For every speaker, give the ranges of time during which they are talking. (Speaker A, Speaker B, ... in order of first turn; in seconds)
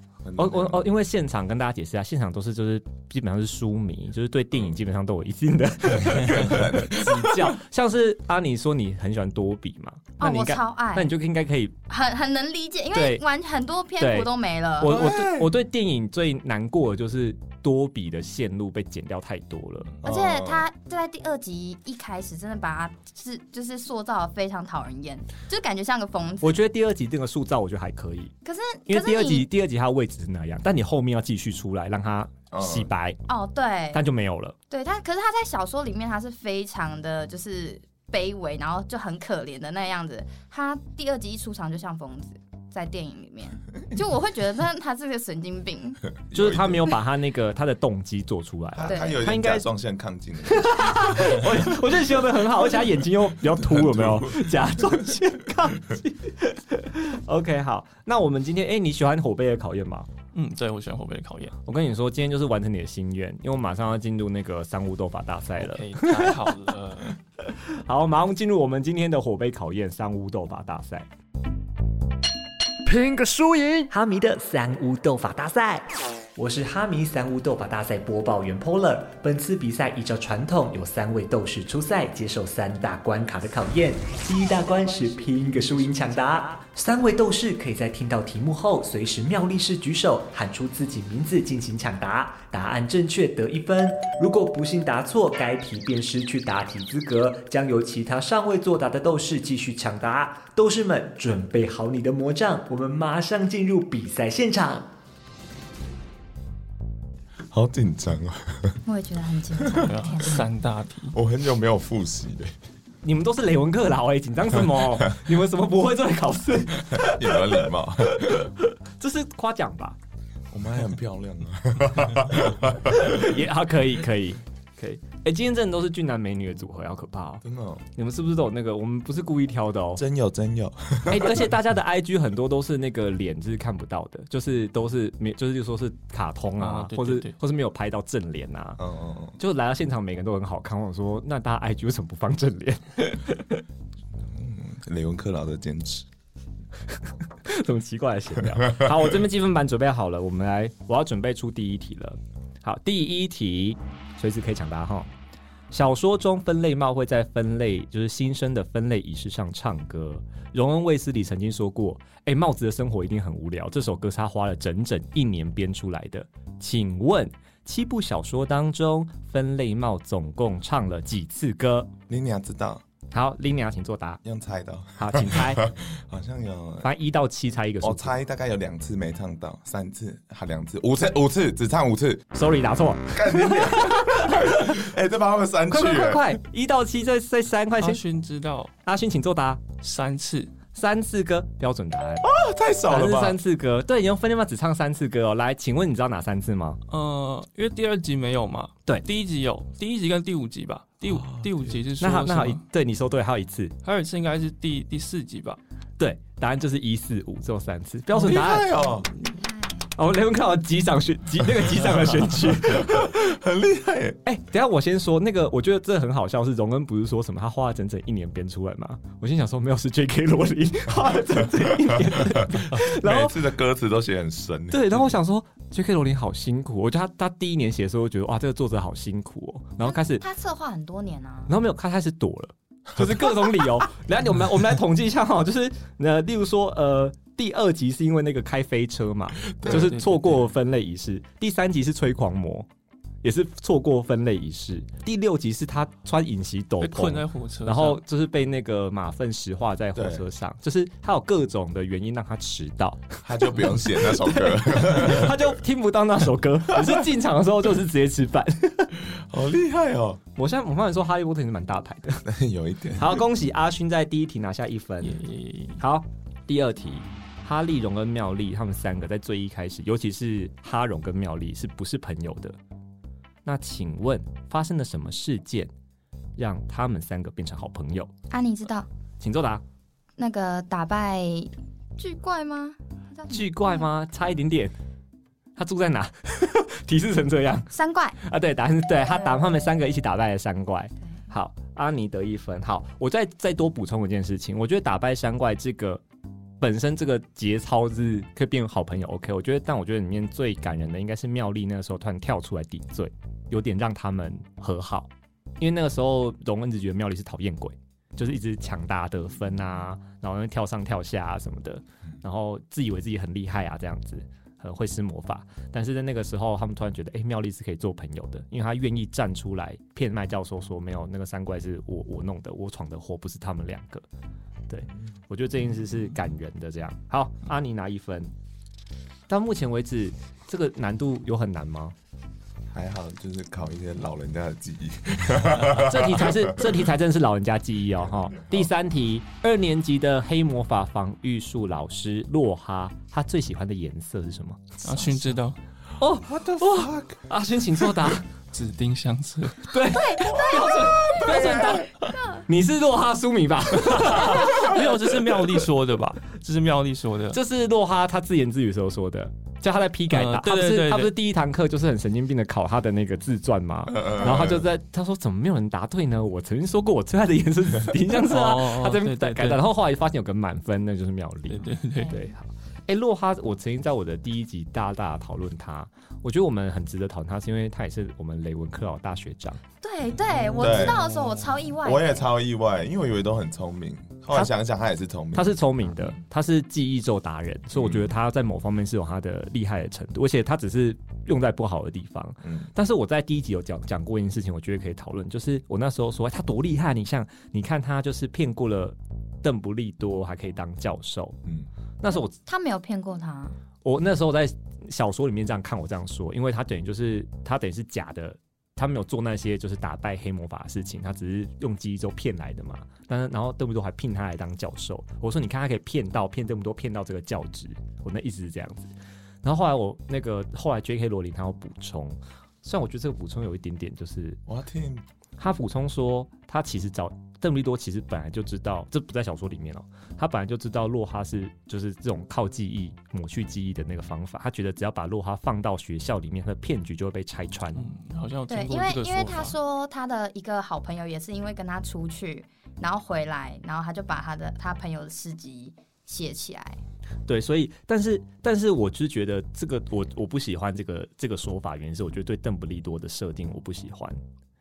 Speaker A: 0.2-0.9, 6.3-7.5, 14.9-15.5, 20.0-20.7, 32.5-32.9, 46.3-47.0, 48.7-51.9, 53.5-54.5, 107.5-108.8, 109.6-109.9, 111.1-112.5, 116.9-118.5, 120.5-123.3, 127.4-127.8, 130.0-131.5, 138.8-139.4, 144.3-146.1, 172.1-172.8, 174.2-176.9, 177.8-182.3, 183.1-186.4, 192.2-193.4, 208.1-209.1, 212.5-214.2, 221.7-225.2, 233.0-233.3, 239.5-239.9, 250.0-250.3, 253.2-255.6, 259.0-260.2, 262.2-263.2, 332.7-336.6, 346.2-347.2, 351.3-351.8, 363.9-364.7, 380.5-381.1, 381.8-385.6, 387.7-388.1, 392.4-392.7, 424.5-425.1
Speaker B: 0.4-11.8, 12.9-13.2, 14.0-20.0, 26.4-28.3, 28.9-33.2, 33.9-34.6, 46.3-49.7, 50.5-60.1, 61.6-66.4, 67.4-71.1, 113.0-120.0, 122.8-127.4, 128.0-130.0, 131.1-138.8, 139.4-143.6, 147.4-155.1, 155.7-171.9, 173.1-174.2, 175.0-175.6, 176.8-178.2, 182.3-184.8, 185.7-188.0, 188.8-189.6, 190.7-192.3, 192.9-196.8, 202.0-203.8, 206.0-208.7, 209.9-213.2, 214.2-223.4, 224.7-230.2, 231.5-242.7, 243.2-259.0, 260.4-262.3, 263.0-265.2, 265.8-272.6, 273.4-275.7, 276.4-278.1, 279.2-279.6, 283.3-284.7, 285.6-296.0, 296.6-305.1, 305.6-324.1, 324.7-328.3, 329.3-331.9, 335.7-344.8, 346.0-348.3, 349.7-355.0, 357.3-379.6, 385.3-401.4, 402.0-402.3, 403.8-418.9, 419.4-424.4, 425.4-437.9, 447.3-454.2
Speaker C: 10.2-11.1, 11.9-15.0, 20.0-26.6, 28.4-29.5, 33.3-34.0, 34.7-46.0, 48.9-49.2, 108.9-110.4, 209.4-209.7, 229.8-231.5, 278.3-278.9, 280.2-283.9, 287.7-288.2, 350.0-352.4, 372.0-372.2, 379.8-382.3, 402.1-403.6, 438.5-446.8
Speaker D: 60.3-61.6, 65.6-67.1, 109.8-111.2, 136.6-137.3, 187.8-188.7, 189.8-190.5, 196.9-202.6, 203.8-205.6, 239.7-240.5, 246.8-248.0, 265.0-265.8, 344.8-345.6, 348.5-349.7, 353.9-357.4, 360.1-361.1, 368.1-369.6, 371.5-372.2, 380.4-381.3, 437.8-439.6
Speaker E: 73.0-104.9